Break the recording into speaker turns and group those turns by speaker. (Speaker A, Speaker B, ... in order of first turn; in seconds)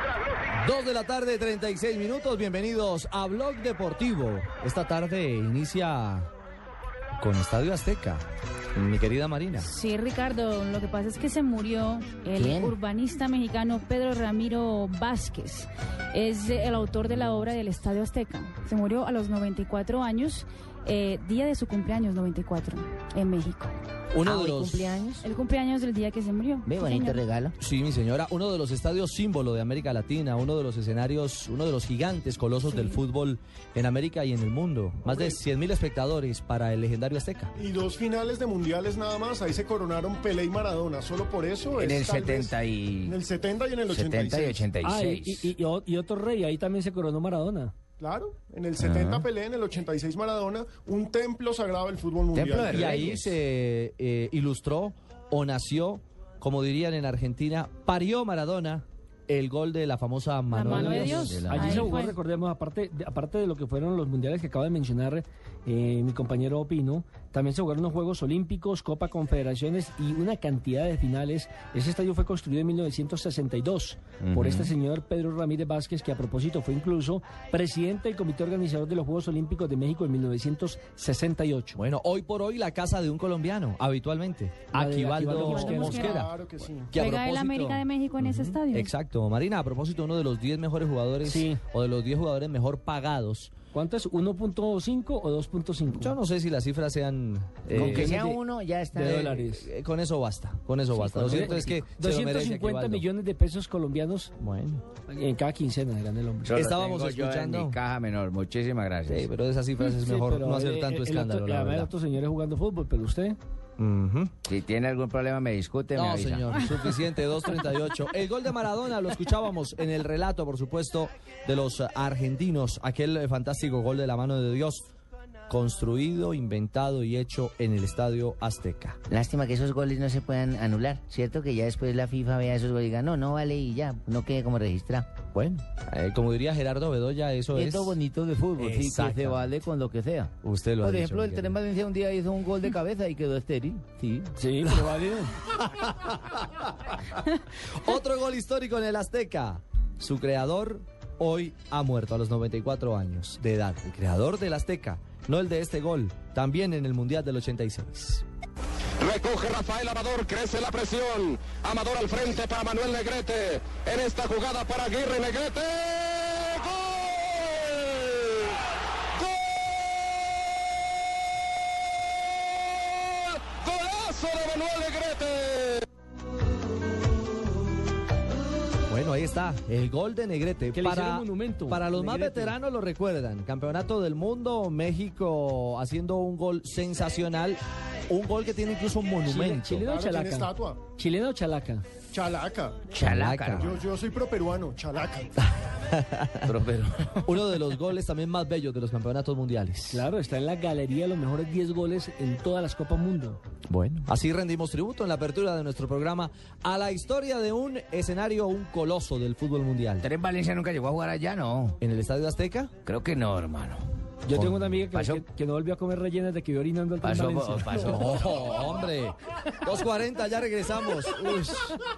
Speaker A: 0.6-6.3, 7.2-8.2, 8.8-9.7, 24.1-24.9, 27.6-37.5, 52.7-61.4, 81.8-86.3, 86.9-93.5, 95.9-98.2, 99.0-103.0, 104.4-104.8, 106.5-107.8, 109.1-111.9, 113.8-114.3, 115.9-124.8, 125.5-129.0, 135.3-138.0, 138.6-139.5, 140.4-141.6, 145.6-158.2, 178.9-189.9, 193.0-193.7, 195.9-196.5, 197.2-200.1, 203.7-210.1, 211.8-212.7, 214.3-214.8, 217.8-221.8
Speaker B: 9.6-23.7, 25.2-27.2, 32.7-33.0, 60.5-62.2, 85.5-86.2, 86.9-88.9
Speaker C: 12.4-12.8, 24.2-25.3, 26.7-27.6, 41.8-43.1, 44.0-45.2, 48.8-49.1, 52.5-53.2, 97.7-99.3, 101.0-101.8, 106.6-107.8, 108.8-109.2, 114.5-116.4, 129.1-135.2, 137.5-144.3, 196.5-197.1, 210.0-211.7, 213.0-213.8, 217.2-218.0
Speaker D: 35.1-35.4, 37.6-44.7, 48.0-52.8, 85.7-86.9, 189.9-190.8, 192.1-192.8, 193.6-195.2
Speaker E: 42.6-43.0, 44.6-45.4, 52.5-53.3, 106.5-109.3, 114.5-116.4, 192.9-193.5, 210.0-211.5, 212.9-213.8, 217.0-218.8
Speaker F: 44.8-47.7, 60.6-81.8, 84.7-86.0, 91.2-91.6, 93.7-96.2, 97.7-98.4, 98.9-99.7, 101.2-104.3, 105.1-106.6, 109.8-113.4, 144.4-145.3, 180.7-182.6, 189.2-191.8, 199.9-203.4, 214.3-218.0
Speaker G: 159.0-166.4, 173.5-175.8